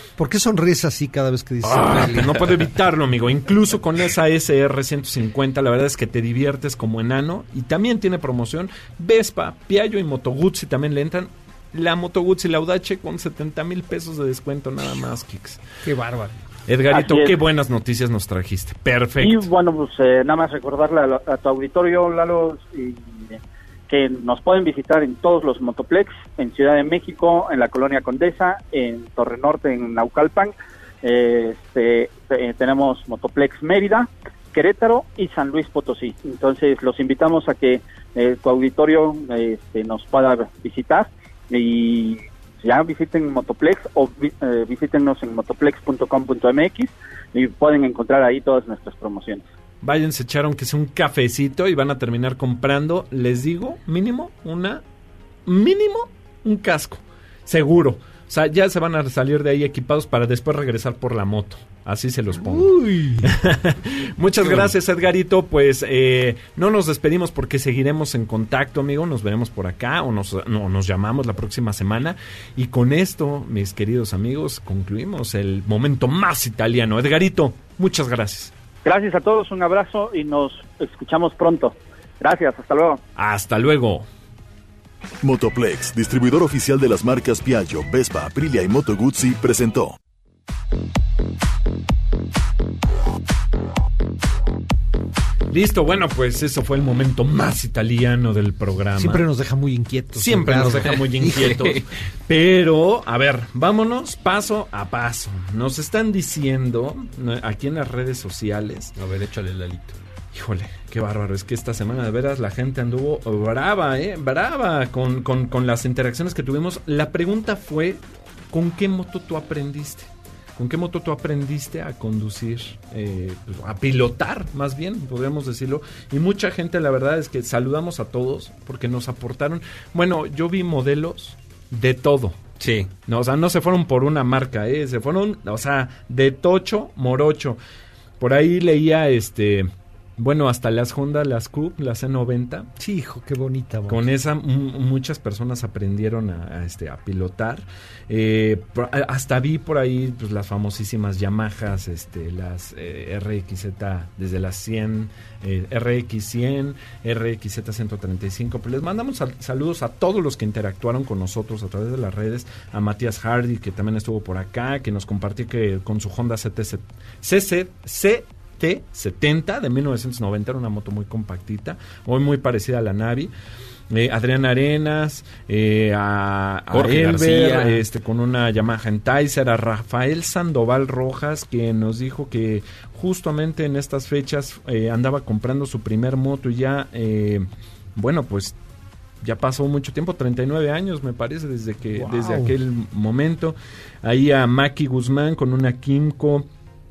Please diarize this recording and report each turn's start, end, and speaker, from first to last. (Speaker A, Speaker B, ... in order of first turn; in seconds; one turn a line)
Speaker A: 0.2-2.6
Speaker B: 1.6-15.6
Speaker A: 15.8-16.4
Speaker B: 16.7-19.5
Speaker C: 16.9-17.4
Speaker C: 19.2-23.4
Speaker C: 23.9-49.5
Speaker B: 49.8-54.8
Speaker B: 55.5-78.5
Speaker A: 62.4-63.3
Speaker C: 78.8-83.0
Speaker B: 83.2-84.1
Speaker D: 85.2-90.0
Speaker B: 95.5-99.2
Speaker A: 99.0-101.8
Speaker B: 100.2-108.9
Speaker E: 101.4-101.7
Speaker E: 109.0-110.0
Speaker B: 110.3-118.0
Speaker B: 118.5-132.4
Speaker E: 132.6-132.9
Speaker B: 133.1-137.6
Speaker B: 138.2-142.7
Speaker A: 142.8-144.1
Speaker B: 143.9-173.3
Speaker B: 173.9-188.6
Speaker E: 176.7-177.8
Speaker B: 189.2-196.5
Speaker A: 192.0-192.5